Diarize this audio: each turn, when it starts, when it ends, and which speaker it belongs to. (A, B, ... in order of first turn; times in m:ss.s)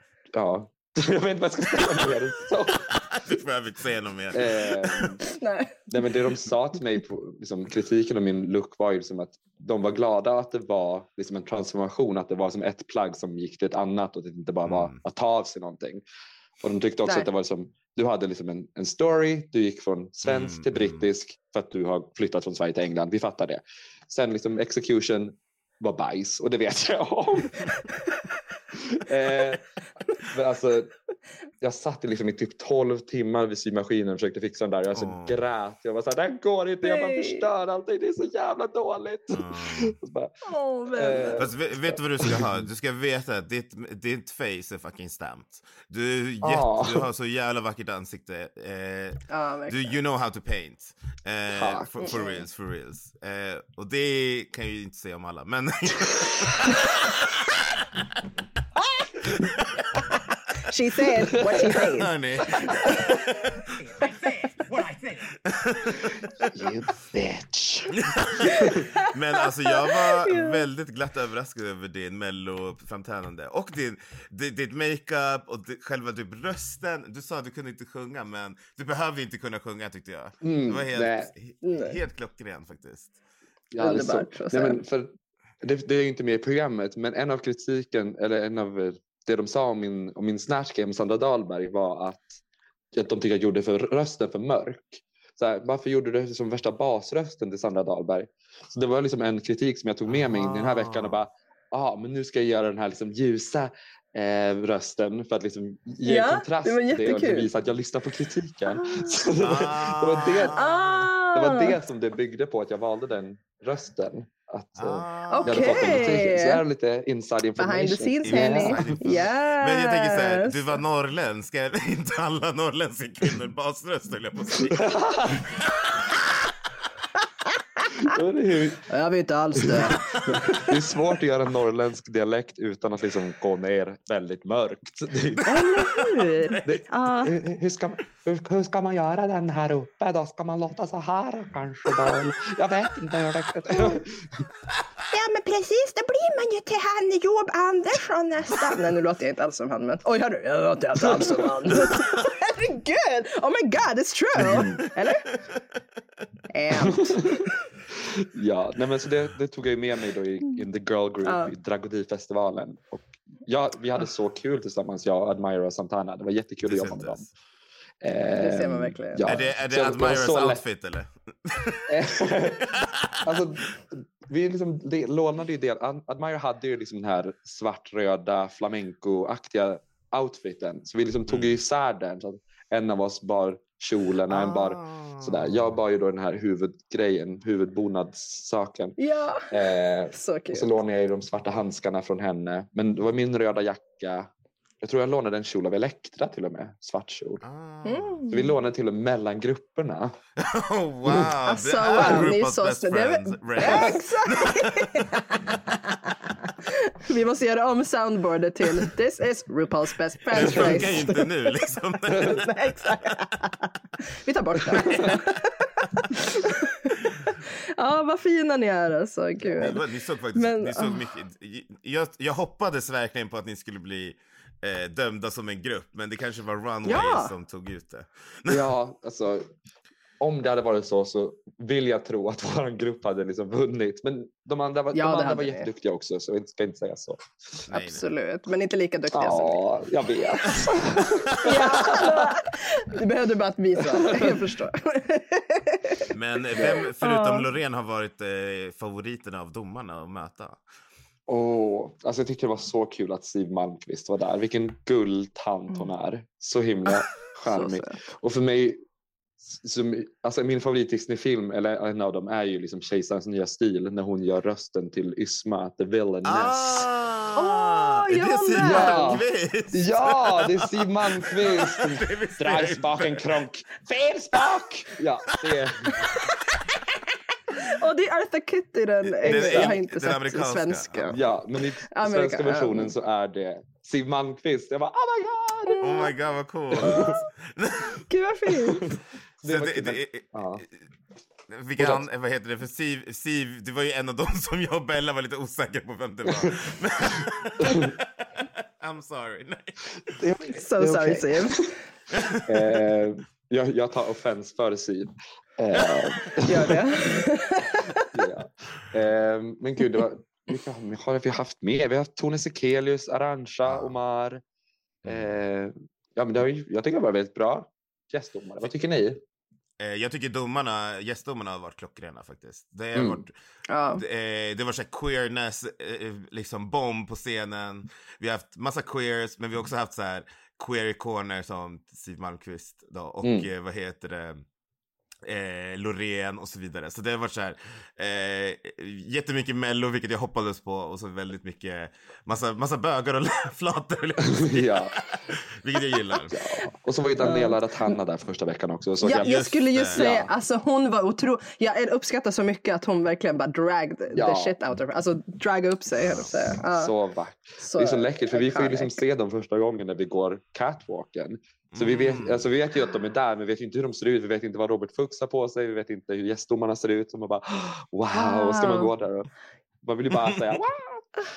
0:00.3-0:02.9 A
0:02.9-0:05.1 B
0:04.3-0:05.2 A
0:05.2-0:05.9 C
0:05.9-0:16.0 A
0:14.6-0:15.0 B
0:16.6-0:27.7 A
0:20.2-0:21.0 B
0:28.7-0:29.6 A
0:30.2-0:30.9 A
0:31.6-0:40.3 A
0:34.9-0:35.4 B
0:36.8-0:37.4 C
0:39.3-0:40.0 B
0:40.4-0:41.5 C
0:40.9-0:42.5 A
0:41.4-0:58.0 B
0:46.4-0:47.1 A
0:49.3-0:49.9 C
0:51.5-0:52.2 A
0:52.0-0:52.4 C
0:59.2-1:00.1 B
1:00.6-1:03.0 C
1:01.6-1:04.0 B
1:05.4-1:06.2 B
1:06.5-1:08.8 A
1:07.9-1:23.1 B
1:08.6-1:09.1 C
1:09.7-1:10.6 C
1:20.4-1:21.3 A
1:21.6-1:22.0 C
1:23.7-1:32.4 A
1:23.8-1:24.8 C
1:32.9-1:50.6 A
1:40.1-1:41.2 B
1:46.0-1:47.5 C
1:48.8-1:49.1 C
1:49.4-1:51.1 B
1:50.5-1:51.7 C
1:51.3-1:59.0 A
1:54.8-1:56.2 B
1:55.3-1:56.6 C
1:57.6-2:00.8 C
1:58.2-2:06.2 B
2:04.8-2:05.4 A
2:07.8-2:08.1 C
2:08.0-2:08.9 A
2:08.9-2:10.7 C
2:09.6-2:15.6 A
2:15.4-2:17.3 C
2:15.6-2:16.1 B
2:16.6-2:24.4 A
2:25.1-2:35.3 C
2:31.0-2:31.9 A
2:34.4-2:34.8 A
2:36.5-2:37.5 C
2:36.8-2:47.2 A
2:41.2-2:41.5 C
2:46.6-2:47.3 B
2:48.0-2:50.6 A
2:48.3-2:49.3 C
2:49.3-2:52.0 B
2:51.9-3:09.0 A
2:52.6-2:53.3 B
3:01.3-3:01.6 B
3:04.3-3:05.5 B
3:09.0-3:09.5 C
3:09.5-3:14.3 A
3:10.1-3:10.7 C
3:14.8-3:17.4 A
3:17.4-3:18.2 B
3:17.8-3:18.5 C
3:18.3-3:20.2 A
3:20.4-3:25.1 B
3:21.4-3:31.5 C
3:23.6-3:23.9 A
3:30.3-3:33.1 B
3:30.3-3:31.0 A
3:32.1-3:39.8 C
3:39.6-3:48.6 B
3:40.3-3:41.0 C
3:46.8-3:47.3 C
3:48.4-3:49.5 A
3:50.2-3:57.6 A
3:54.9-3:55.7 C
3:57.7-3:58.0 B
3:57.7-3:59.6 C
3:59.1-4:02.3 A
4:00.5-4:07.4 C
4:00.5-4:01.6 B
4:04.0-4:04.4 A
4:06.1-4:10.6 B
4:06.5-4:06.8 A
4:11.3-4:18.8 A
4:17.5-4:18.0 C
4:19.4-4:26.9 A
4:26.2-4:33.3 B
4:27.3-4:29.2 C
4:28.6-4:36.0 A
4:37.5-4:41.2 C
4:39.1-4:41.2 B
4:39.2-4:39.8 A
4:41.1-4:45.8 A
4:41.9-4:42.9 C
4:45.6-4:46.1 C
4:45.8-4:48.0 B
4:46.8-4:47.2 A
4:46.8-4:47.2 C
4:48.1-4:48.8 C
4:48.7-4:50.6 A
4:49.4-4:50.3 B
4:51.5-5:00.1 B
4:51.8-4:52.0 A
5:00.2-5:01.7 A
5:00.5-5:01.7 C
5:02.1-5:02.6 B
5:02.4-5:06.8 A
5:05.8-5:06.2 B
5:06.4-5:08.1 C
5:08.1-5:14.4 A
5:13.7-5:13.9 B
5:15.0-5:19.2 A
5:15.0-5:15.3 B
5:19.8-5:23.3 B
5:22.9-5:23.2 A
5:23.7-5:24.0 C
5:24.0-5:34.4 B
5:33.2-5:33.5 A
5:35.2-5:46.4 B
5:44.4-5:44.9 A
5:46.3-5:49.3 A
5:47.2-5:47.9 C
5:49.0-5:56.9 C
5:49.1-5:50.1 B
5:49.9-5:50.3 A
5:54.1-5:54.6 A
5:56.0-5:56.4 B
5:56.6-6:09.3 A
5:57.6-5:59.0 C
6:01.7-6:02.5 B
6:08.1-6:08.9 C
6:09.8-6:11.0 A